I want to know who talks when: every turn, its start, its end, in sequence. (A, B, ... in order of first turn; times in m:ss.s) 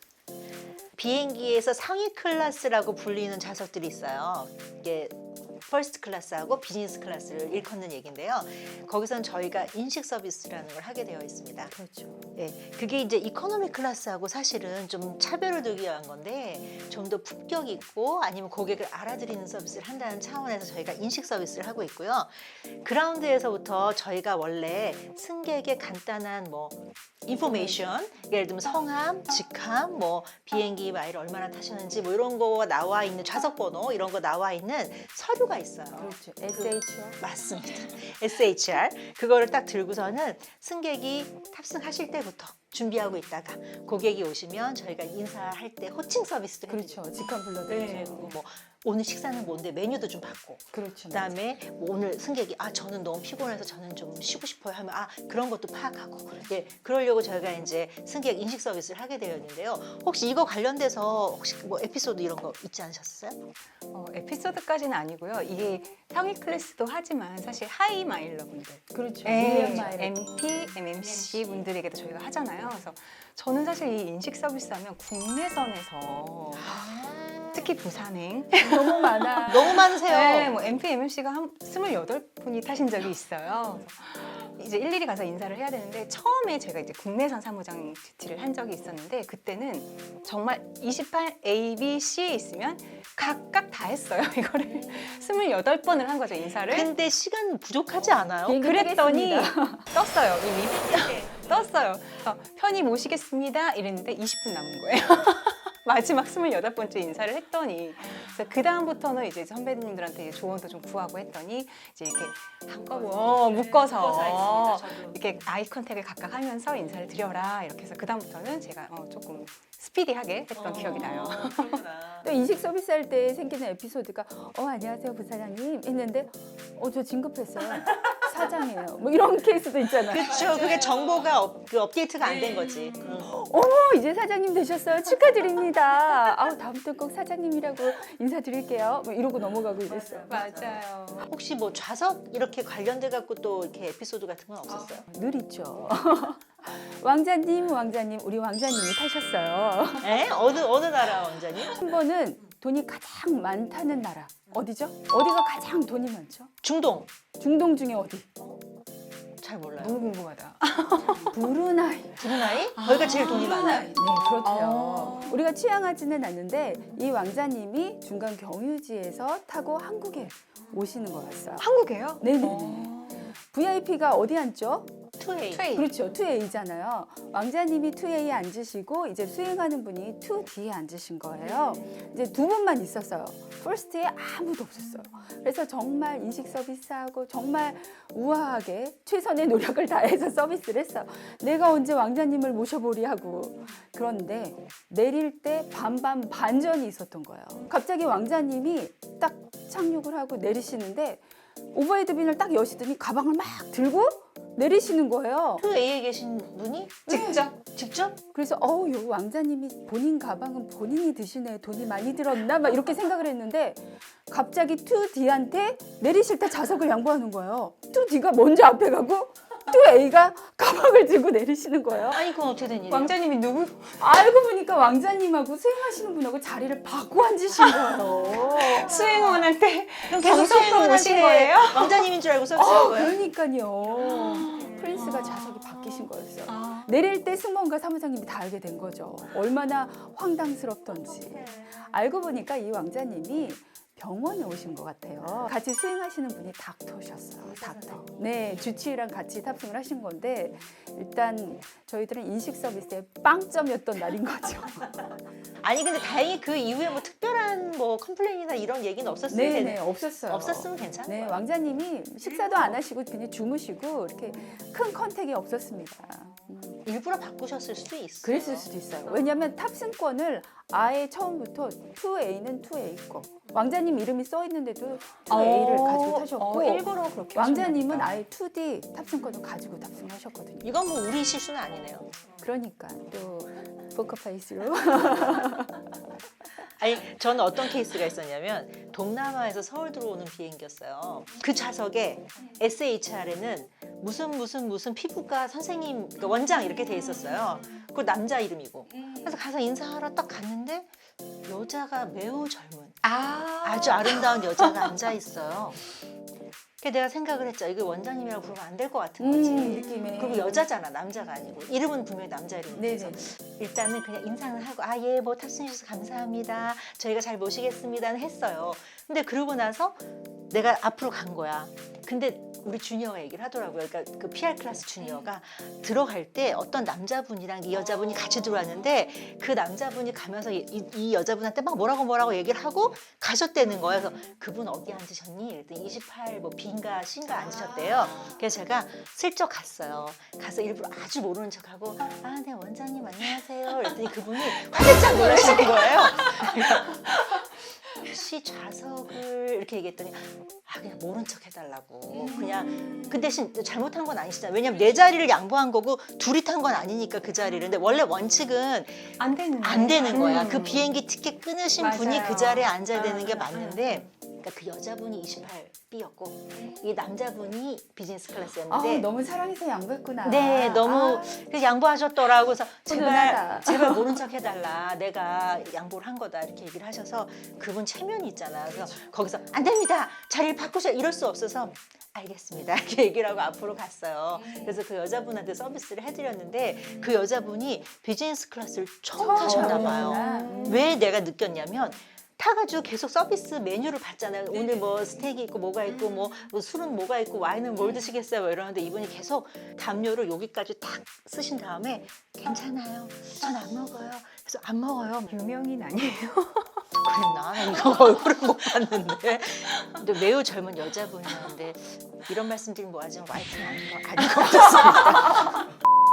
0:01.0-0:11.7 A
0:11.7-0:12.4 B
0:12.4-0:47.0 A
0:27.3-0:27.8 B
0:36.0-0:37.2 B
0:46.7-0:48.3 B
0:47.6-1:03.4 A
0:50.7-0:51.3 B
1:03.9-1:16.7 C
1:08.9-1:10.4 B
1:09.4-1:09.9 A
1:16.6-1:17.7 A
1:17.5-1:36.9 C
1:18.6-1:19.8 B
1:19.5-1:20.6 A
1:36.7-1:38.6 A
1:38.5-1:39.9 B
1:38.6-2:01.8 C
1:41.1-1:41.5 A
1:52.9-1:55.2 A
2:00.6-2:02.3 A
2:02.2-2:10.4 B
2:09.9-2:13.3 A
2:12.4-2:12.9 C
2:13.2-2:20.4 B
2:19.9-2:25.1 A
2:20.3-2:21.3 C
2:25.1-2:30.2 B
2:30.0-2:31.8 A
2:31.6-2:36.5 B
2:36.6-2:37.1 A
2:37.4-2:38.3 B
2:39.4-2:40.0 A
2:39.8-2:41.4 C
2:41.3-2:42.5 B
2:42.2-2:43.9 A
2:42.8-2:45.5 C
2:43.3-2:51.7 B
2:51.6-2:53.4 C
2:52.2-2:52.9 B
2:53.4-2:54.9 B
2:55.2-2:55.7 A
2:55.5-2:56.0 C
2:55.7-3:21.2 B
3:01.4-3:02.0 C
3:21.7-3:25.6 B
3:25.6-3:28.2 A
3:27.1-3:27.5 B
3:27.1-3:27.5 C
3:28.3-3:42.3 B
3:42.1-3:43.2 A
3:42.9-3:44.0 C
3:44.0-3:49.0 B
3:47.5-3:52.1 C
3:47.9-3:49.5 A
3:50.1-3:53.2 A
3:52.6-4:15.1 B
3:54.0-3:56.9 C
4:01.2-4:01.8 A
4:07.4-4:08.5 A
4:15.6-4:21.4 A
4:19.3-4:26.8 B
4:26.8-4:28.7 A
4:28.2-4:40.7 B
4:29.1-4:29.5 C
4:35.3-4:38.1 C
4:40.6-4:42.2 A
4:42.4-4:45.8 B
4:46.8-5:00.9 A
5:01.5-5:03.0 A
5:03.0-5:05.0 C
5:03.6-5:05.8 A
5:06.8-5:47.2 A
5:09.2-5:10.7 B
5:09.6-5:10.2 C
5:12.7-5:13.3 B
5:44.5-5:46.7 C
5:47.9-6:09.1 A
5:52.1-5:53.2 C
5:59.2-6:00.9 C
6:01.8-6:04.0 C
6:08.7-6:11.3 B
6:10.2-6:45.4 A
6:12.9-6:14.2 B
6:29.2-6:30.9 B
6:29.4-6:30.8 C
6:36.0-6:36.4 C
6:45.3-6:46.8 C
6:47.0-6:55.7 A